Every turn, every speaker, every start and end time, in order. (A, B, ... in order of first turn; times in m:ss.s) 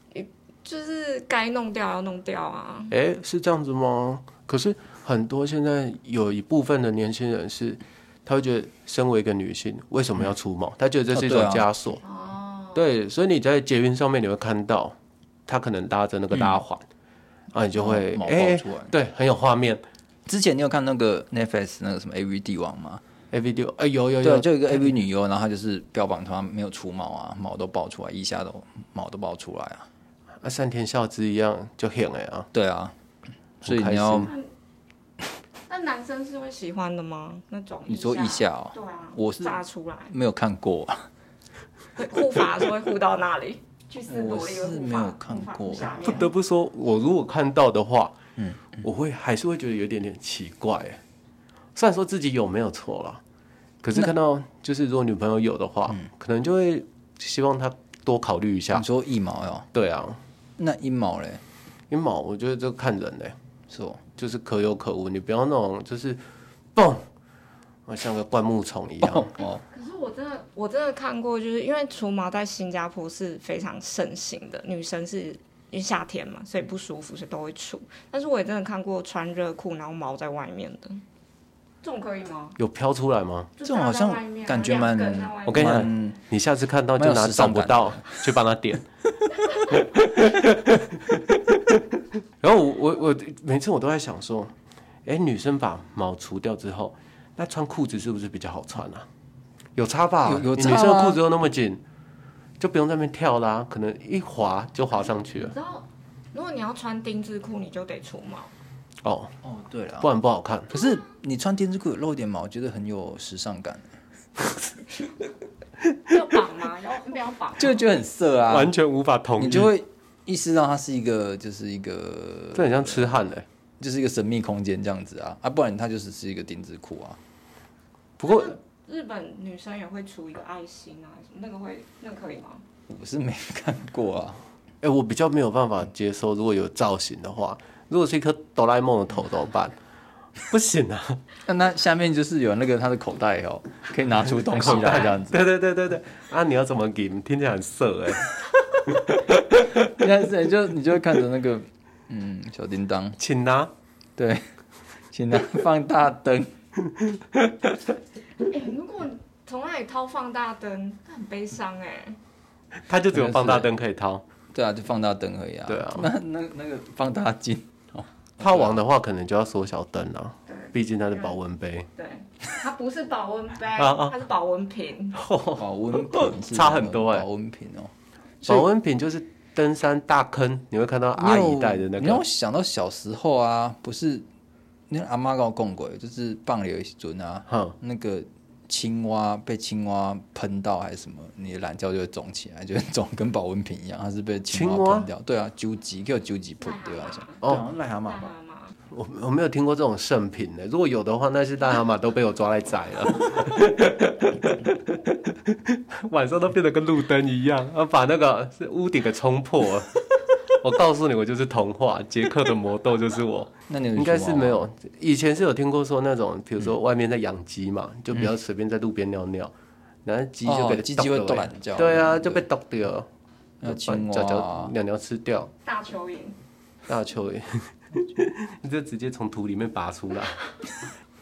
0:00.1-0:02.9 A
0:02.9-0:12.0 B
0:11.1-0:11.7 C
0:12.0-0:12.8 A
0:12.7-0:14.9 B
0:15.5-0:16.8 B
0:17.5-0:19.8 B
0:17.7-0:18.9 C
0:20.3-0:23.0 C
0:23.3-0:24.9 B
0:24.2-0:29.9 C
0:30.4-0:32.5 B
0:32.5-0:32.9 C
0:33.6-0:34.3 C
0:33.6-0:34.3 B
0:35.7-0:40.1 A
0:37.8-0:41.1 C
0:42.0-0:46.3 A
0:44.1-0:46.3 C
0:46.0-0:48.1 B
0:48.4-0:48.8 C
0:48.8-0:51.0 B
0:51.7-0:53.2 B
0:53.8-0:58.8 B
0:58.7-0:59.7 C
0:59.7-1:00.2 B
1:00.6-1:01.4 C
1:01.9-1:03.3 B
1:03.7-1:04.0 C
1:04.2-1:06.2 B
1:06.7-1:07.0 B
1:07.9-1:09.3 B
1:09.0-1:09.6 C
1:09.4-1:21.0 A
1:21.8-1:22.6 A
1:22.6-1:23.5 B
1:23.6-1:25.8 A
1:23.6-1:26.2 C
1:25.4-1:28.9 B
1:27.0-1:28.2 C
1:29.7-1:31.8 B
1:32.4-1:34.5 B
1:35.0-1:39.0 B
1:39.8-1:41.8 B
1:40.2-1:41.2 C
1:42.6-1:45.6 B
1:45.4-1:48.5 A
1:49.0-1:49.3 B
1:49.4-1:50.1 C
1:50.0-1:50.7 B
1:50.7-1:54.0 C
1:56.1-1:57.8 A
1:57.6-1:58.7 C
1:58.5-1:59.7 B
1:59.4-2:03.1 C
2:02.5-2:03.4 B
2:03.8-2:07.2 C
2:08.2-2:08.5 B
2:08.2-2:12.6 A
2:12.9-2:14.4 C
2:14.8-2:19.7 B
2:20.5-2:21.2 B
2:21.4-2:25.4 C
2:24.5-2:28.3 B
2:29.1-2:29.7 B
2:29.8-2:33.2 C
2:33.2-2:33.7 B
2:34.2-2:34.5 C
2:35.1-2:36.5 C
2:38.4-2:42.2 A
2:42.9-2:44.2 B
2:43.1-2:43.7 C
2:44.5-2:48.8 C
2:45.7-2:46.1 B
2:48.4-2:51.9 B
2:50.5-2:51.4 A
2:52.0-2:55.2 A
2:53.8-2:54.2 B
2:55.1-2:57.3 B
2:55.6-2:57.9 C
2:58.4-3:02.2 B
3:01.2-3:04.2 C
3:04.9-3:18.3 C
3:07.5-3:07.8 B
3:14.5-3:15.1 B
3:16.6-3:17.4 A
3:18.0-3:18.7 A
3:18.9-3:30.0 B
3:30.6-3:39.5 B
3:33.7-3:34.6 C
3:40.0-3:43.1 B
3:40.4-3:42.4 C
3:43.6-3:44.7 C
3:43.6-3:45.5 B
3:45.6-3:46.4 A
3:46.9-3:50.4 B